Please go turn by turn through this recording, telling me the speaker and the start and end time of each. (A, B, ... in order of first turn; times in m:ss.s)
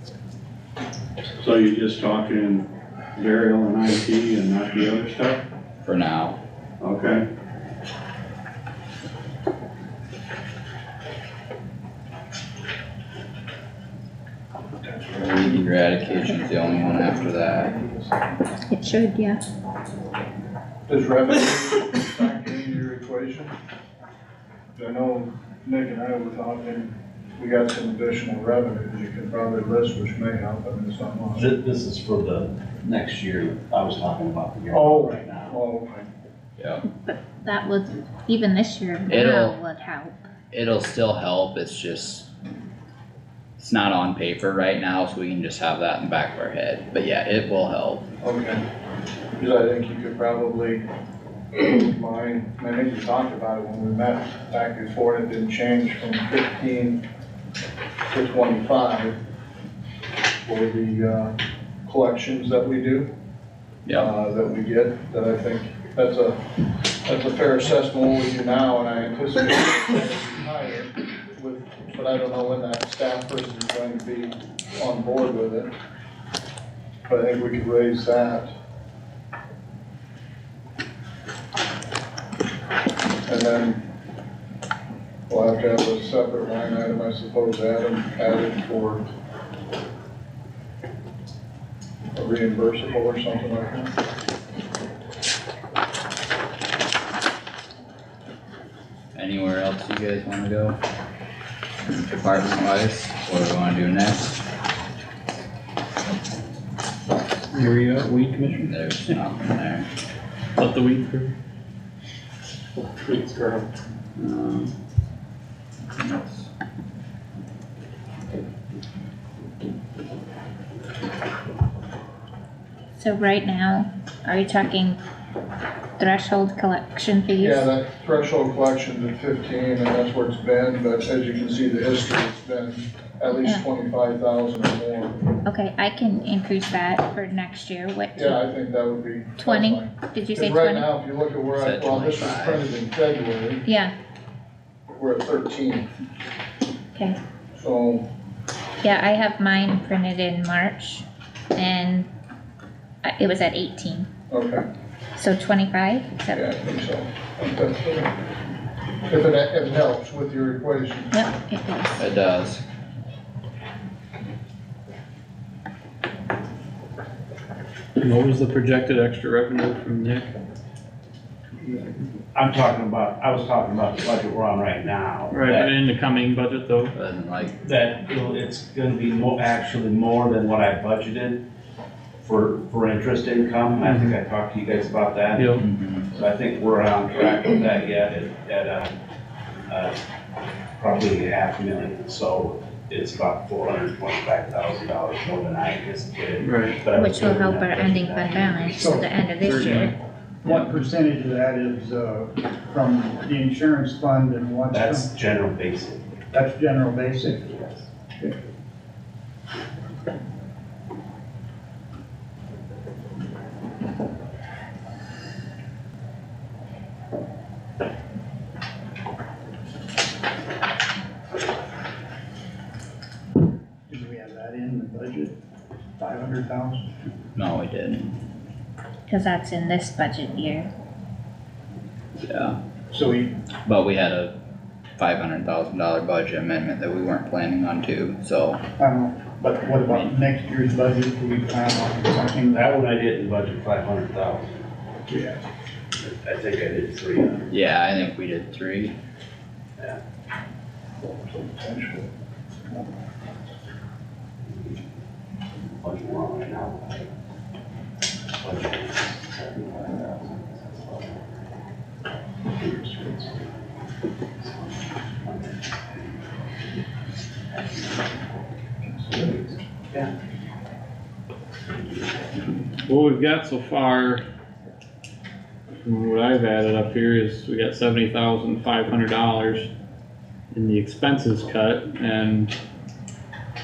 0:01.5-0:02.6 A
0:03.2-0:05.4 A
0:05.8-0:06.4 B
0:14.8-0:18.4 C
0:15.1-0:17.7 B
0:18.7-0:19.4 D
0:20.9-0:23.5 C
0:24.8-0:31.5 C
0:31.3-0:35.6 E
0:34.7-0:36.1 C
0:36.9-0:40.2 D
0:39.1-0:39.6 B
0:40.5-0:42.2 B
0:43.6-0:48.1 B
0:48.2-0:48.6 C
0:49.4-0:50.8 C
0:51.6-0:57.0 C
0:58.1-0:59.2 C
1:00.4-1:03.1 C
1:03.8-1:04.1 B
1:03.9-1:15.7 C
1:17.1-1:18.5 C
1:23.2-1:23.8 C
1:25.3-1:29.1 C
1:32.1-1:33.9 C
1:39.1-1:40.8 B
1:41.8-1:44.4 B
1:47.5-1:48.7 F
1:48.6-1:49.9 B
1:50.6-1:51.3 F
1:53.0-1:53.7 F
1:54.2-1:54.7 F
1:56.0-1:56.5 B
2:03.0-2:05.0 D
2:06.0-2:07.7 D
2:07.4-2:15.2 C
2:13.4-2:13.6 D
2:15.4-2:18.4 D
2:18.2-2:23.6 C
2:19.4-2:20.9 D
2:21.5-2:22.7 B
2:23.6-2:23.9 D
2:24.9-2:25.9 C
2:27.5-2:28.0 C
2:28.8-2:32.1 D
2:33.0-2:34.1 D
2:34.3-2:34.6 C
2:35.2-2:36.5 D
2:36.3-2:38.1 C
2:39.1-2:41.2 C
2:41.1-2:42.0 D
2:42.0-2:42.6 B
2:48.0-2:50.3 F
2:51.6-2:52.0 F
2:52.3-2:55.7 E
2:55.3-2:56.9 F
2:56.9-2:57.6 B
2:57.6-3:01.4 E
3:02.2-3:09.0 E
3:03.8-3:04.1 F
3:05.3-3:05.6 F
3:05.6-3:06.1 B
3:09.7-3:10.0 E
3:10.8-3:18.8 E
3:16.4-3:16.8 F
3:16.9-3:20.0 D
3:18.8-3:19.1 G
3:19.4-3:19.9 F
3:20.4-3:25.1 G
3:24.7-3:26.0 E
3:26.3-3:27.5 G
3:27.2-3:27.9 E
3:43.9-3:45.3 G
3:46.0-3:46.8 G
3:47.4-3:48.2 B
3:49.1-3:50.7 D
3:52.2-3:52.6 B
3:52.9-3:53.3 G
3:53.6-3:54.3 B
3:55.0-3:58.6 B
3:58.8-4:02.7 G
3:59.9-4:00.1 B
4:02.5-4:04.6 E
4:05.1-4:05.4 G
4:06.0-4:07.5 E
4:07.5-4:09.0 B
4:11.2-4:12.1 C
4:15.8-4:17.1 E
4:18.3-4:21.3 E
4:22.4-4:23.6 E
4:24.4-4:26.2 E
4:27.5-4:28.0 E
4:28.8-4:30.1 E
4:32.8-4:34.2 F
4:35.8-4:39.7 F
4:40.5-4:42.5 F